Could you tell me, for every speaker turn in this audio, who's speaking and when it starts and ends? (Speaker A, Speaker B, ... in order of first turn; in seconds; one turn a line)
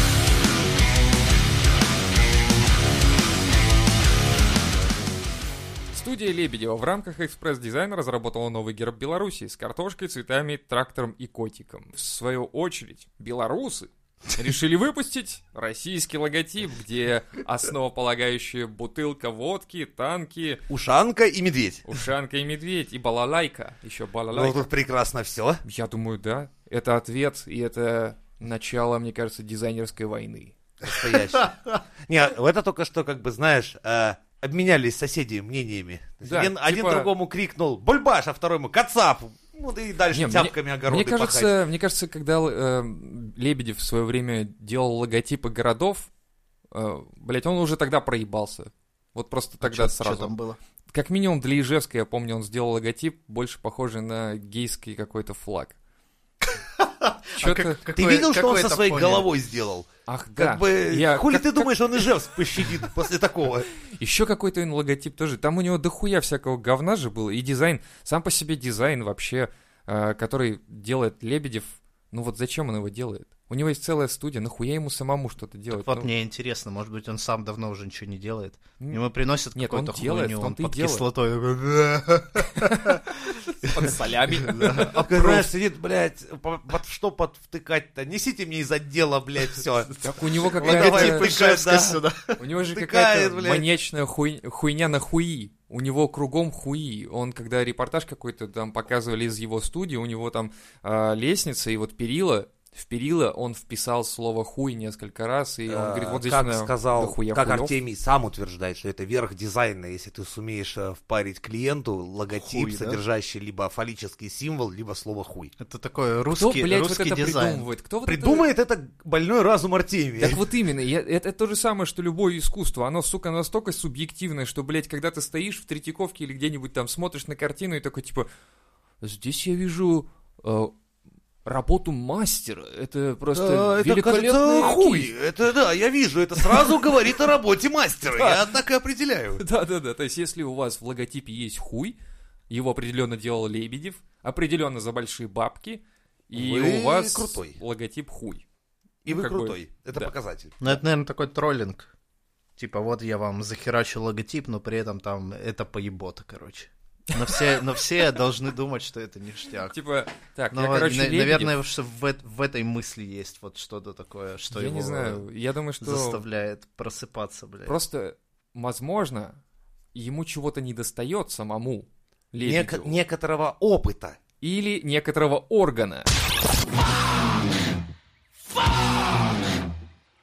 Speaker A: 5.9-20.6
Speaker B: 20.7-21.8
Speaker A: 21.9-24.7
Speaker B: 24.3-25.6
Speaker A: 25.6-30.5
Speaker B: 30.8-41.5
Speaker A: 36.2-37.1
Speaker A: 40.1-46.1
Speaker A: 46.7-50.3
Speaker C: 49.6-50.6
Speaker A: 50.9-55.8
Speaker C: 56.4-59.3
Speaker A: 57.4-57.8
Speaker B: 57.9-63.7
Speaker A: 60.1-62.0
Speaker A: 64.0-76.1
Speaker C: 75.7-84.8
Speaker A: 79.5-81.0
Speaker A: 82.6-82.9
Speaker A: 83.5-85.5
Speaker B: 84.6-90.0
Speaker A: 90.0-91.3
Speaker C: 90.1-92.4
Speaker B: 90.5-92.0
Speaker A: 92.4-107.7
Speaker B: 92.7-93.7
Speaker B: 105.7-115.5
Speaker C: 112.3-113.0
Speaker C: 115.6-117.7
Speaker A: 116.3-118.4
Speaker B: 118.0-120.4
Speaker A: 120.2-128.3
Speaker A: 129.0-130.7
Speaker A: 131.4-135.1
Speaker B: 133.3-139.4
Speaker A: 138.1-138.5
Speaker A: 139.4-142.0
Speaker A: 142.5-148.4
Speaker B: 146.3-147.6
Speaker B: 149.0-150.6
Speaker A: 149.1-150.1
Speaker C: 150.6-151.9
Speaker C: 152.6-159.8
Speaker A: 159.7-161.6
Speaker C: 160.5-165.2
Speaker A: 164.5-166.2
Speaker C: 165.8-167.7
Speaker A: 167.7-169.4
Speaker A: 169.9-173.0
Speaker B: 172.4-174.2
Speaker A: 174.4-176.1